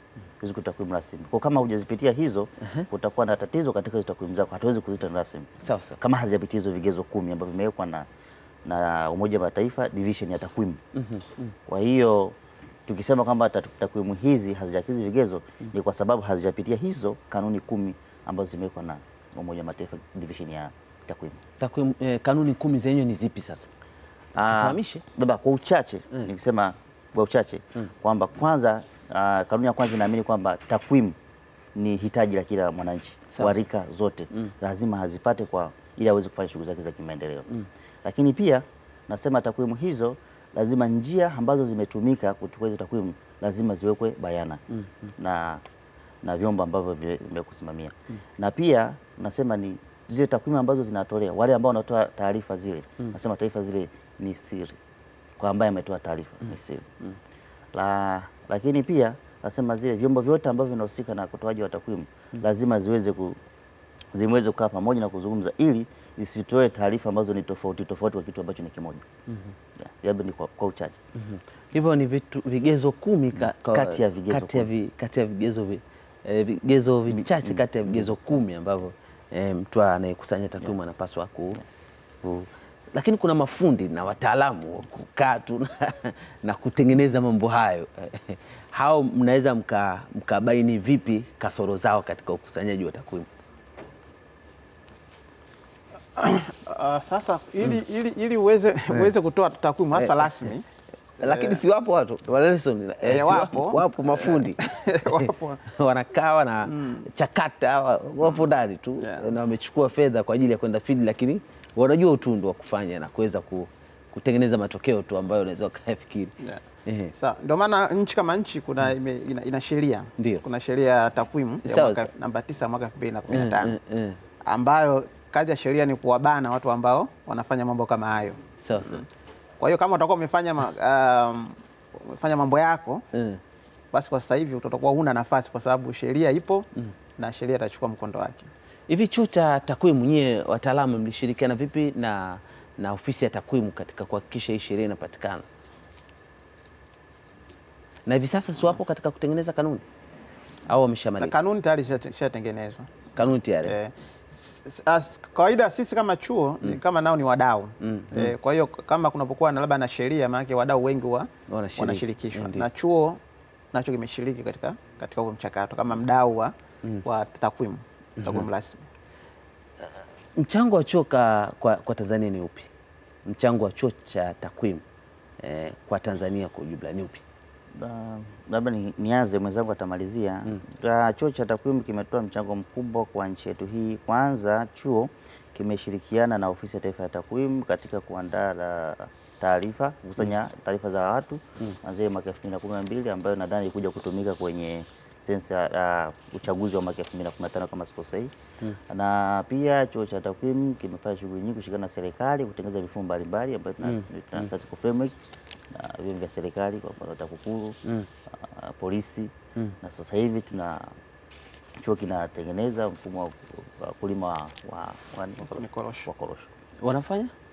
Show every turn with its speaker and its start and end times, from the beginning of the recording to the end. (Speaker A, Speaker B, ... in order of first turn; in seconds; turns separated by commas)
Speaker A: 0.4-8.1, Speaker B: 5.6-6.0, Speaker A: 8.6-10.8, Speaker B: 10.9-11.5, Speaker A: 11.7-21.4, Speaker B: 21.6-23.7, Speaker A: 24.4-31.2, Speaker B: 24.4-25.0, Speaker A: 31.8-37.5, Speaker B: 33.3-33.6, Speaker A: 38.0-44.6, Speaker A: 45.2-45.6, Speaker A: 46.2-54.8, Speaker A: 55.4-56.9, Speaker A: 57.7-63.4, Speaker A: 64.1-69.1, Speaker A: 69.8-71.0, Speaker B: 71.2-81.6, Speaker A: 73.5-74.7, Speaker A: 77.1-77.6, Speaker B: 82.9-93.3, Speaker C: 96.2-100.7, Speaker B: 100.0-100.5, Speaker C: 101.2-101.6, Speaker B: 101.2-116.3, Speaker C: 103.0-105.7, Speaker C: 106.7-107.0, Speaker C: 109.0-109.3, Speaker B: 116.9-117.1, Speaker C: 117.2-123.8, Speaker B: 120.2-120.4, Speaker B: 121.7-122.1, Speaker B: 123.3-124.2, Speaker C: 124.5-129.1, Speaker B: 128.6-129.0, Speaker C: 129.6-133.0, Speaker B: 133.1-133.4, Speaker C: 133.9-138.5, Speaker B: 138.9-145.5, Speaker B: 148.1-149.8, Speaker B: 150.7-151.3, Speaker C: 151.2-152.9, Speaker B: 153.2-153.8, Speaker C: 153.6-163.2, Speaker B: 157.8-158.3, Speaker B: 161.5-162.7, Speaker C: 163.7-168.9, Speaker B: 170.4-172.7, Speaker B: 173.2-174.8, Speaker B: 175.4-177.2, Speaker A: 177.8-198.3, Speaker A: 198.9-205.2, Speaker A: 205.7-207.8, Speaker A: 208.3-210.9, Speaker A: 211.8-216.5, Speaker C: 215.4-216.1, Speaker B: 216.8-217.3